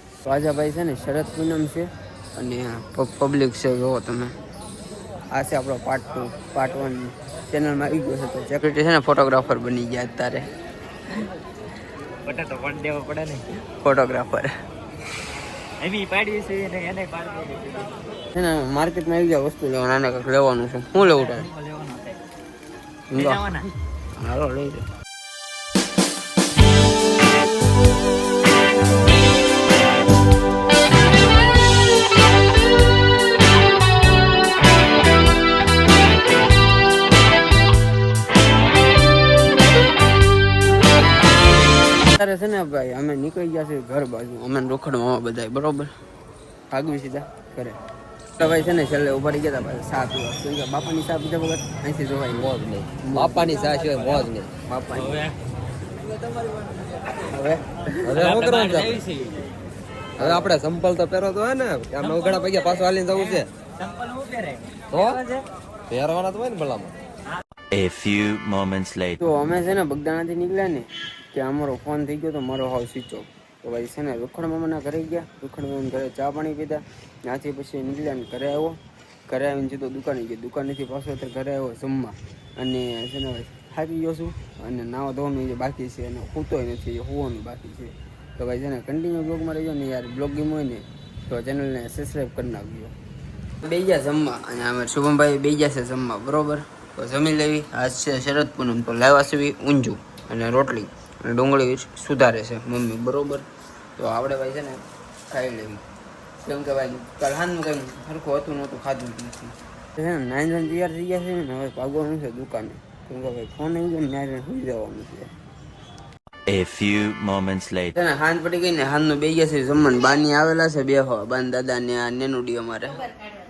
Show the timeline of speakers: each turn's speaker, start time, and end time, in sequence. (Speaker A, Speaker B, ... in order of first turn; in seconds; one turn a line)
Speaker A: 0.2-4.3
Speaker A: 5.3-10.5
Speaker B: 12.2-13.4
Speaker A: 13.8-14.5
Speaker B: 15.8-17.9
Speaker A: 18.3-21.5
Speaker B: 21.0-22.0
Speaker A: 23.1-23.7
Speaker B: 23.1-23.7
Speaker A: 24.2-24.8
Speaker A: 42.1-45.9
Speaker A: 46.7-47.8
Speaker A: 48.4-53.6
Speaker C: 52.4-54.6
Speaker A: 54.7-55.2
Speaker B: 55.0-55.3
Speaker A: 57.2-58.2
Speaker C: 58.0-59.0
Speaker B: 58.2-59.4
Speaker C: 60.2-63.5
Speaker B: 62.0-62.4
Speaker B: 63.1-65.4
Speaker C: 64.9-65.2
Speaker C: 65.9-67.0
Speaker D: 67.7-69.2
Speaker A: 69.2-92.9
Speaker A: 93.6-103.5
Speaker A: 104.0-105.8
Speaker A: 106.4-115.3
Speaker D: 116.5-117.9
Speaker A: 118.0-123.1